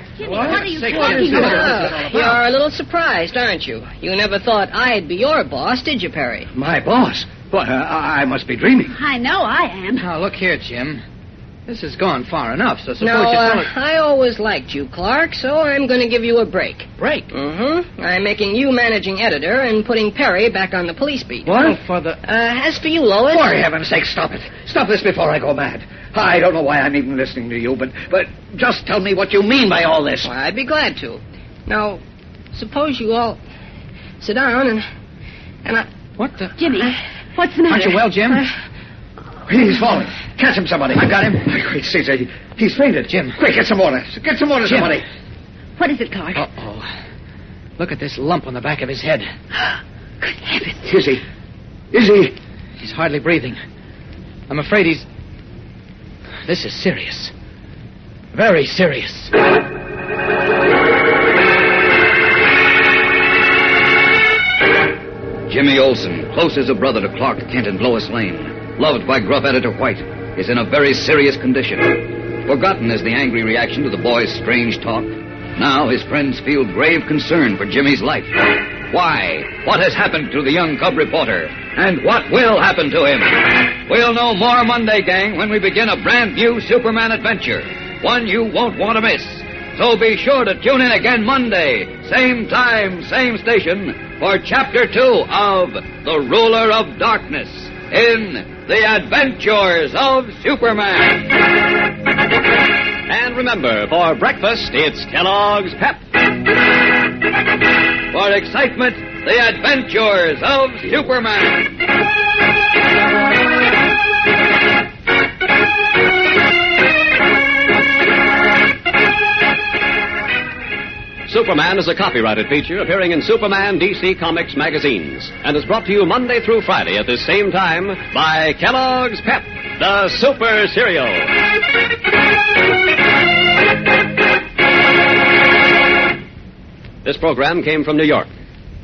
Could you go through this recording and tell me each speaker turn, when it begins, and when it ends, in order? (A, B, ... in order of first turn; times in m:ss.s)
0:00.2-0:01.8 A
0:00.2-0:02.0 B
0:00.6-0:02.4 C
0:01.0-0:06.5 D
0:06.5-0:08.9 C
0:08.9-0:10.1 A
0:10.0-0:11.0 B
0:11.7-0:13.7 B
0:13.0-0:23.6 D
0:17.0-0:17.3 B
0:21.5-0:22.2 B
0:21.5-0:21.8 C
0:23.3-0:30.3 C
0:30.2-0:32.0 D
0:32.5-0:33.4 D
0:34.2-0:34.9 D
0:36.2-0:36.6 B
0:36.6-0:38.0 A
0:37.6-0:38.4 B
0:39.5-0:45.0 C
0:40.9-0:41.4 B
0:43.0-0:43.4 B
0:44.6-0:45.0 B
0:45.8-0:46.4 A
0:46.3-0:46.9 B
0:47.8-0:49.3 B
0:50.2-0:51.1 A
0:50.9-0:51.2 C
0:52.0-0:52.3 C
0:52.8-0:53.6 B
0:54.5-0:55.0 B
0:56.4-0:57.3 B
0:58.3-0:59.3 B
1:05.5-1:41.4 E
1:43.1-1:46.0 F
1:48.1-1:51.8 E
2:01.3-2:11.3 F
2:17.0-2:18.3 F